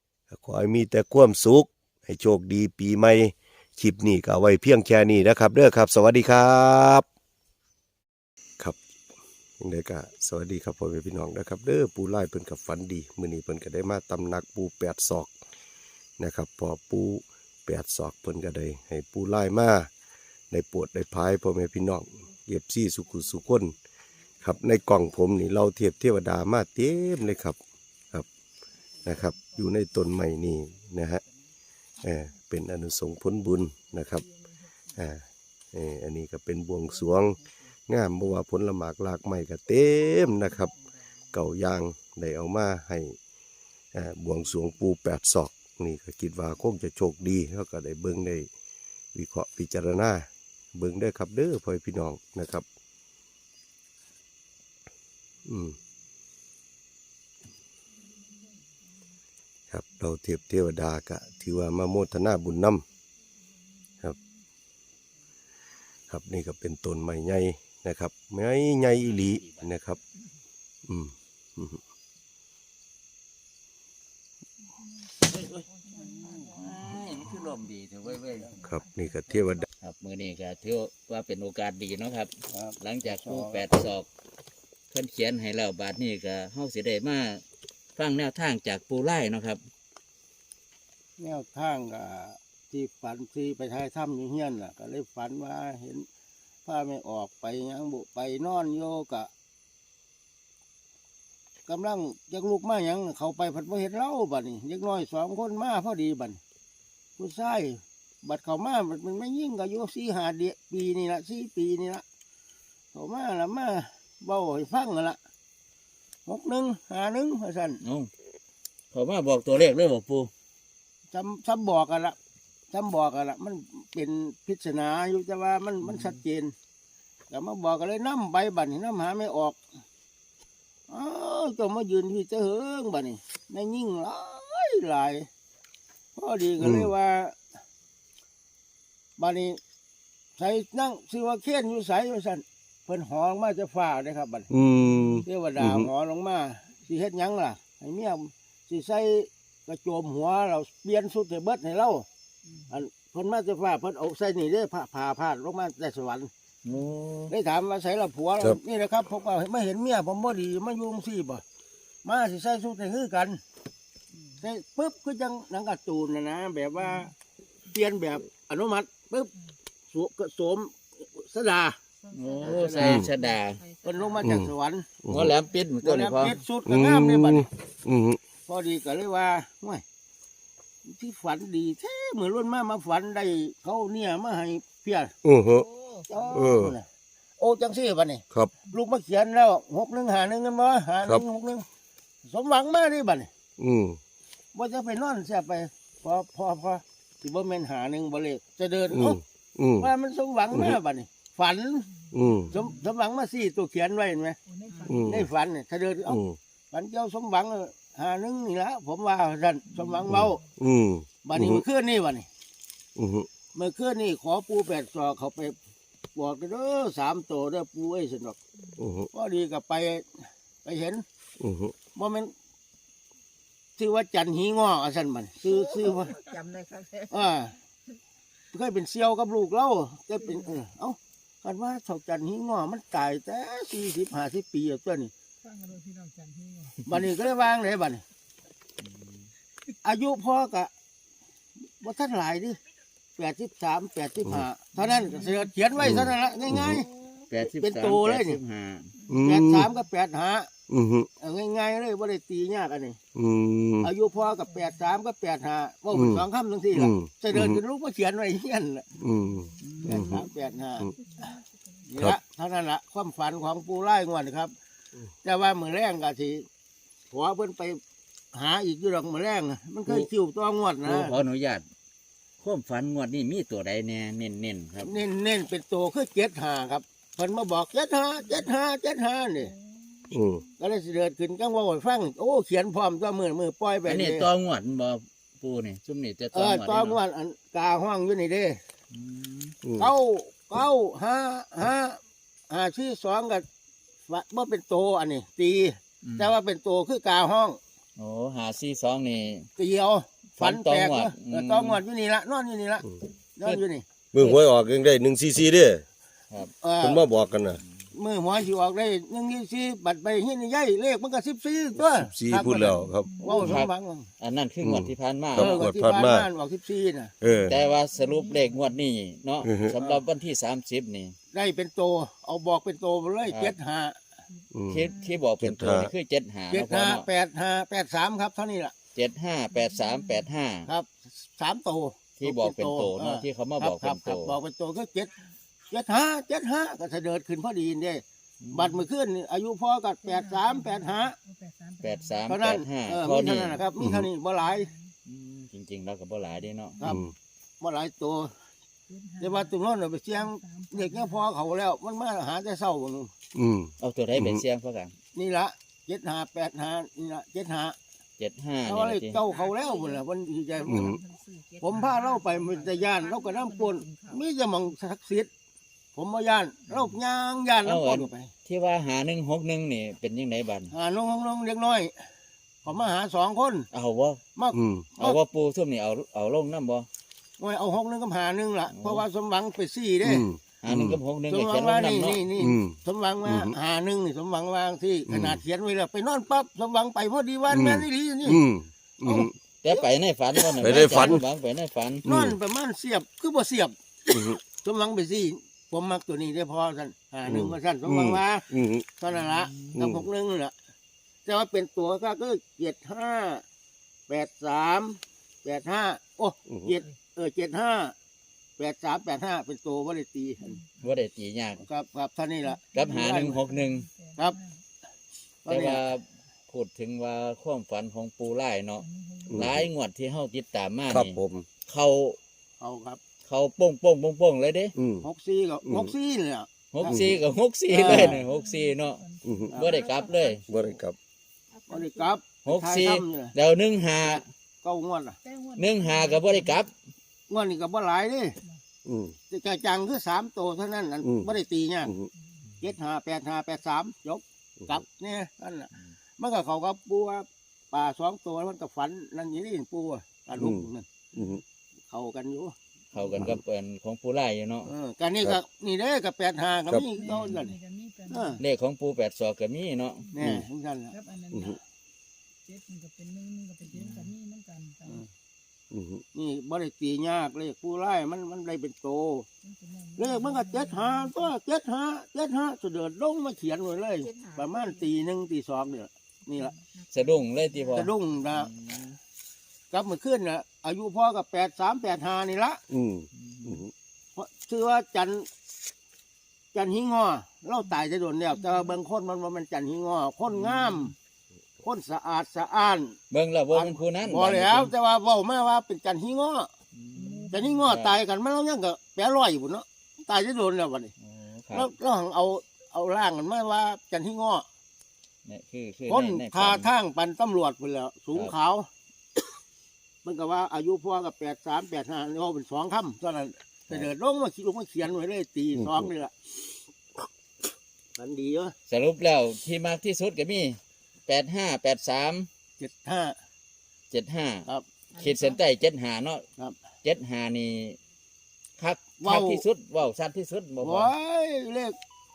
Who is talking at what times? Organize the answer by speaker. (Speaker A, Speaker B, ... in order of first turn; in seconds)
Speaker A: 0.3-7.0, 9.6-15.3, 16.2-19.9, 20.5-23.8, 24.4-27.6, 29.0-31.2, 32.0-34.2, 35.0-37.4, 37.9-40.7, 41.3-43.2, 43.9-48.5, 49.1-52.6, 55.4-55.7, 59.7-62.8, 66.1-70.0, 70.9-71.8, 78.6-79.7, 136.6-136.9, 144.5-145.9, 172.8-173.1, 174.2-174.5, 175.0-175.3, 176.7-178.2, 185.2-185.7, 186.3-186.8, 193.6-194.0, 198.9-199.9, 200.5-200.8, 202.1-202.5, 204.8-205.3, 206.1-206.4, 210.1-211.6, 212.9-213.3, 218.8-219.1, 221.4-221.7, 245.8-246.8, 249.1-249.7, 250.7-251.1, 253.1-253.9, 255.9-257.6, 259.0-260.2, 280.1-280.4, 289.6-289.9, 304.1-305.8, 306.8-307.6, 311.8-313.1, 314.6-316.3, 317.2-317.6, 319.4-319.7, 324.5-325.9, 343.8-344.1, 346.8-347.1, 353.3-354.4, 360.6-361.0, 374.5-374.9, 380.0-381.0, 382.4-383.5, 385.1-385.4, 387.5-389.3, 390.6-391.2, 392.0-392.4, 394.1-394.4, 397.2-398.9, 399.8-400.1, 419.3-419.7, 420.9-421.5, 424.8-425.1, 425.6-425.9, 426.9-427.2, 429.2-429.5, 430.5-430.9, 438.8-439.1, 441.0-441.3, 450.4-451.4, 453.1-453.4, 460.2-460.4, 461.3-461.6, 465.7-466.0, 482.7-483.7, 515.5-515.9
Speaker B: 29.0-29.6, 75.4-77.0, 78.5-79.0, 164.1-164.4, 172.0-174.4, 185.5-186.7, 202.5-202.8, 204.4-205.2, 225.4-227.3, 235.4-236.8, 245.0-247.3, 249.0-249.7, 254.2-254.8, 259.2-261.8, 279.4-280.5, 313.0-313.6, 317.9-318.6, 324.9-325.2, 329.7-330.2, 340.0-342.4, 344.4-344.9, 348.9-349.5, 350.1-351.2, 359.2-364.2, 412.7-414.6, 418.8-419.4, 427.9-430.4, 431.5-432.2, 435.2-436.6, 456.9-458.4, 460.9-461.6, 462.4-465.0, 469.4-471.3, 474.0-474.9, 476.3-477.9, 488.4-488.8, 496.9-497.6, 524.9-525.4
Speaker C: 69.0-69.7, 76.3-78.6, 79.8-84.1, 84.9-87.4, 88.0-89.6, 117.8-118.1, 118.9-120.3, 125.8-126.2, 156.6-157.3, 172.1-173.6, 175.1-176.4, 238.8-239.2, 247.3-248.9, 270.8-271.6, 272.4-275.0, 283.8-287.0, 288.9-289.6, 296.0-296.3, 298.0-299.5, 300.4-301.8, 313.2-315.7, 317.5-321.1, 323.2-323.5, 324.7-327.1, 328.9-330.7, 332.1-334.4, 338.4-338.9, 341.8-343.6, 345.1-346.8, 353.8-354.9, 358.2-359.2, 367.6-370.7, 373.7-374.2, 375.0-376.9, 378.7-379.0, 380.6-382.2, 389.6-392.0, 399.2-399.7, 410.8-411.6, 412.7-413.9, 415.5-422.2, 423.2-424.7, 426.7-430.4, 432.4-434.3, 435.6-436.7, 452.9-454.7, 457.1-457.4, 458.4-460.1, 463.7-464.1, 476.9-479.0, 483.2-483.6, 490.3-490.9, 493.1-494.7, 496.7-497.9, 501.0-501.7, 505.2-506.7, 518.7-522.3, 523.9-526.2, 526.8-527.8, 528.6-530.9
Speaker D: 76.5-77.0, 82.5-83.6, 91.2-96.1, 96.7-99.3, 101.7-106.4, 107.2-112.0, 112.9-115.2, 116.2-117.8, 121.1-122.2, 122.7-126.5, 127.3-129.6, 130.9-135.3, 136.2-137.4, 139.2-139.6, 140.4-144.5, 145.2-152.1, 152.7-156.3, 157.3-161.4, 162.0-163.4, 164.4-167.1, 167.7-169.3, 169.9-171.8, 172.4-173.1, 173.8-174.9, 175.8-177.5, 178.5-179.8, 180.8-185.1, 186.1-186.8, 187.4-191.6, 192.2-193.3, 194.5-199.2, 199.8-201.9, 202.5-206.2, 206.7-210.4, 211.2-212.3, 213.5-215.6, 216.1-218.4, 219.1-221.0, 221.9-222.3, 223.8-226.3, 227.1-227.5, 228.5-235.1, 236.8-238.0, 239.8-240.7, 241.8-242.6, 243.2-246.9, 247.4-248.4, 249.2-250.5, 251.2-253.0, 253.8-258.9, 259.8-264.5, 265.2-266.5, 267.1-267.8, 268.3-271.1, 274.8-279.5, 280.6-284.3, 286.3-288.6, 289.8-293.4, 294.1-297.6, 299.6-302.9, 303.4-303.8, 306.6-307.0, 307.9-314.1, 315.3-317.1, 319.8-320.0, 321.3-324.0, 326.5-328.7, 330.7-335.1, 335.7-341.1, 342.3-344.7, 347.6-348.3, 349.2-353.1, 355.1-357.8, 358.6-361.0, 361.6-365.3, 365.9-368.3, 370.7-371.9, 372.6-373.7, 374.4-375.2, 377.4-380.3, 381.3-388.4, 389.1-391.2, 392.1-400.5, 401.2-403.4, 404.1-407.9, 408.6-410.6, 411.6-413.4, 415.4-415.9, 422.6-423.0, 425.0-427.0, 427.7-428.2, 429.5-429.8, 431.7-433.3, 434.1-435.2, 437.3-438.4, 439.3-441.9, 442.6-450.9, 451.9-452.6, 454.6-457.6, 458.1-458.4, 460.1-460.9, 466.1-469.3, 470.0-476.6, 477.7-478.5, 479.7-482.6, 484.1-485.3, 486.5-490.9, 491.6-493.0, 493.5-496.5, 497.3-500.9, 501.5-504.4, 505.9-508.7, 510.0-516.1, 518.0-518.5, 522.6-523.1, 529.0-529.4, 530.6-531.8